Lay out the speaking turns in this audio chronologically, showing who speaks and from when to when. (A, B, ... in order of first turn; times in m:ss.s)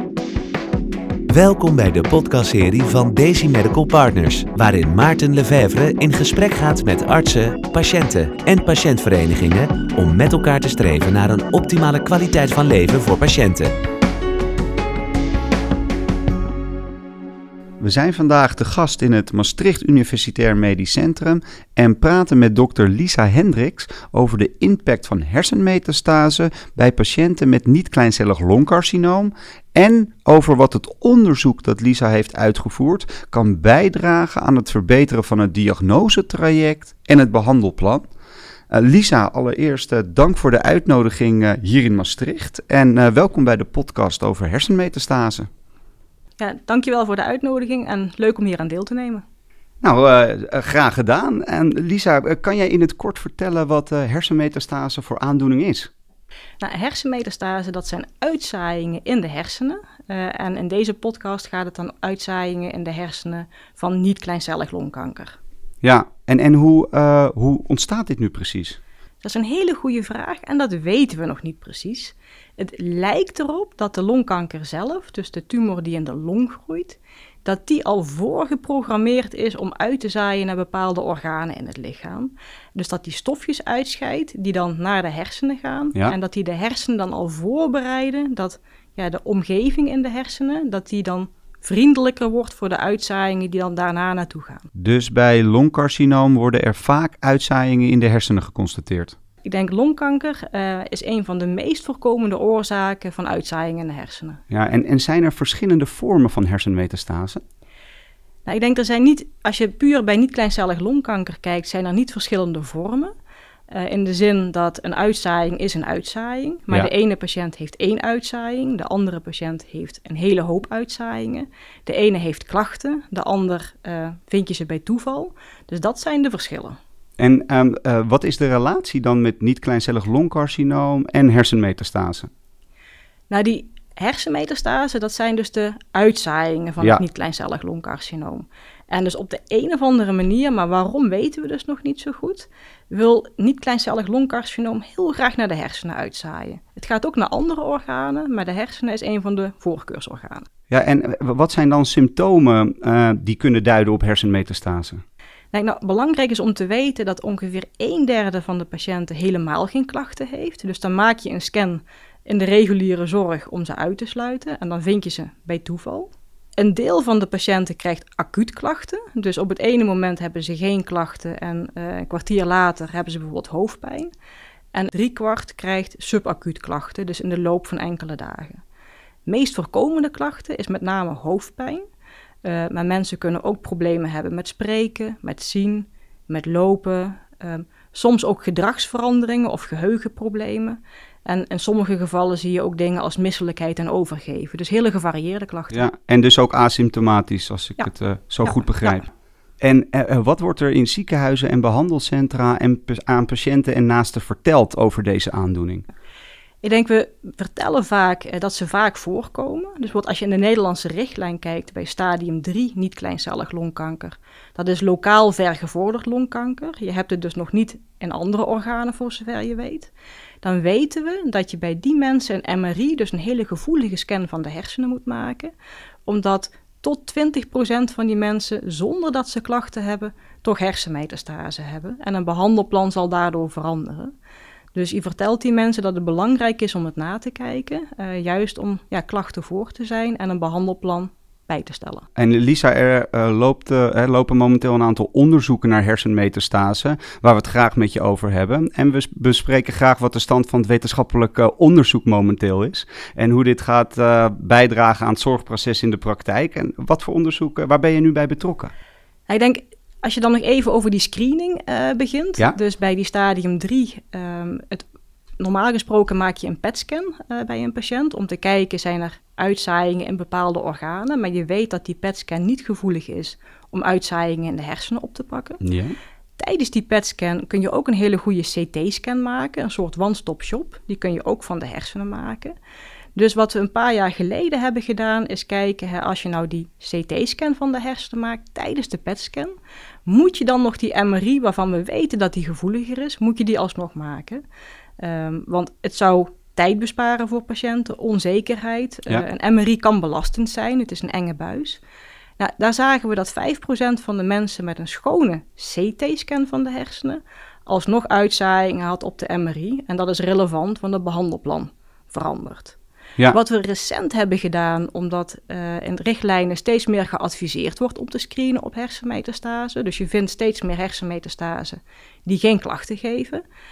0:01.3-0:13.7 A
0:17.8-0:38.0 B
0:38.7-0:45.5 B
0:46.4-0:49.2 C
0:49.8-0:55.9 B
0:56.6-1:05.4 C
1:05.8-1:08.8 B
1:09.2-1:34.7 C
1:34.8-1:39.2 B
1:39.4-1:44.4 C
1:44.5-1:47.4 B
1:48.4-1:53.1 C
1:53.7-2:06.8 C
2:07.2-2:12.3 B
2:13.3-2:30.5 C
2:30.7-2:35.0 B
2:35.5-2:54.1 C
2:54.7-2:58.6 C
2:59.2-3:01.8 C
3:02.4-3:15.9 C
3:15.7-3:19.1 B
3:18.4-3:19.0 C
3:19.6-3:25.8 B
3:26.6-3:39.9 C
3:40.4-3:45.5 C
3:46.0-3:54.1 C
3:54.7-4:02.0 C
4:02.2-4:18.7 B
4:19.3-4:24.8 C
4:25.4-4:35.6 C
4:35.6-4:35.9 B
4:36.4-4:42.5 C
4:43.2-4:49.5 C
4:50.0-4:54.4 C
4:55.0-5:01.8 C
5:02.4-5:12.8 C
5:13.3-5:23.4 C